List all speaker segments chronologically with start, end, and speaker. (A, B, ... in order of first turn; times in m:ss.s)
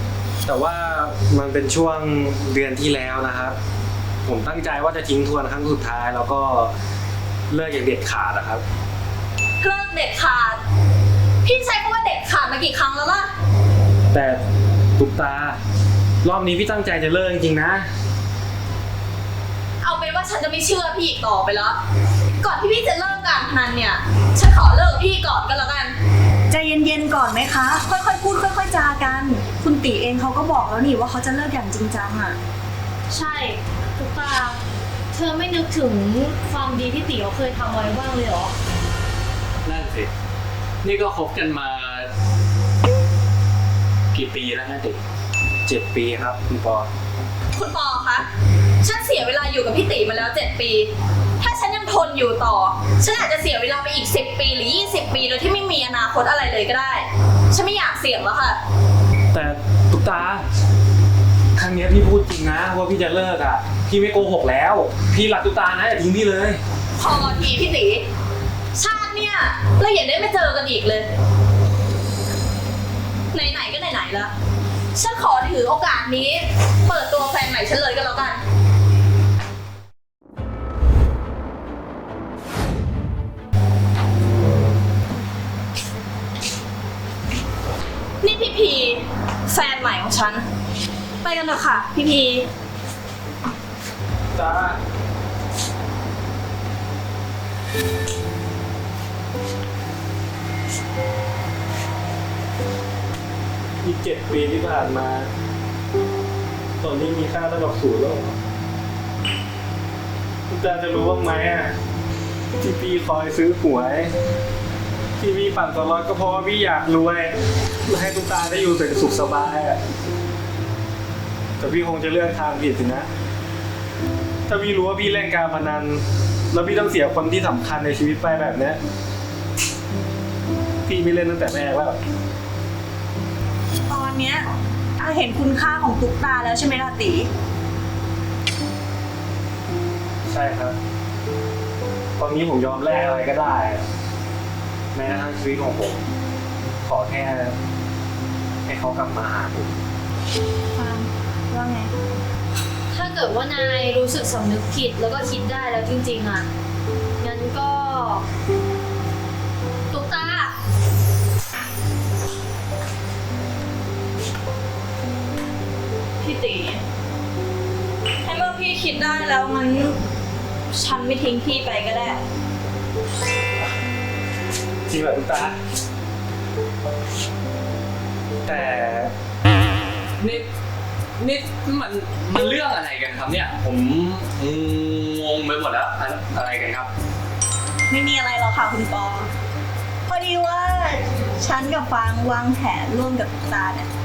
0:00.4-0:03.6 A
0:04.2-0:06.7 A
0:07.5-0:08.6 A
0:09.6-0:10.6 B
0:11.4-0:13.3 B
0:14.1-0:14.4 A
0:15.0-0:15.6 A
0:16.2-0:17.9 A
0:19.8-0:21.8 B
0:22.4-0:26.0 B
0:26.5-0:32.4 C
0:33.1-0:34.6 D
0:35.1-0:38.5 D
0:39.6-0:40.1 E
0:40.8-0:42.1 E
0:44.1-0:45.0 E
0:45.6-0:46.9 A
0:47.5-0:48.3 B
0:48.8-0:58.6 B
0:59.3-1:00.4 A
1:01.6-1:06.6 A
1:07.0-1:08.1 B
1:08.7-1:11.1 B
1:13.3-1:14.3 B
1:15.0-1:18.4 B
1:28.2-1:30.4 B
1:31.2-1:32.5 B
1:34.3-1:34.8 A
1:43.8-1:45.3 A
1:46.8-1:48.4 A
1:50.5-1:51.7 A
1:52.6-1:54.1 A
1:55.2-1:59.8 A
2:01.6-2:03.1 A
2:04.5-2:08.8 A
2:10.8-2:12.0 A
2:13.9-2:14.5 C
2:15.0-2:17.3 C
2:20.3-2:20.8 A
2:22.2-2:23.8 A
2:24.9-2:26.0 A
2:26.8-2:27.6 A
2:28.6-2:29.7 A
2:30.7-2:31.9 C
2:32.9-2:36.5 D
2:37.2-2:38.2 D
2:39.9-2:40.5 D
2:46.2-2:46.8 B
2:48.2-2:50.0 B
2:50.7-2:52.2 B
2:54.9-2:55.6 A
2:58.4-2:59.1 A
3:00.2-3:00.4 E
3:01.2-3:06.9 E
3:07.9-3:09.3 C
3:10.1-3:13.9 C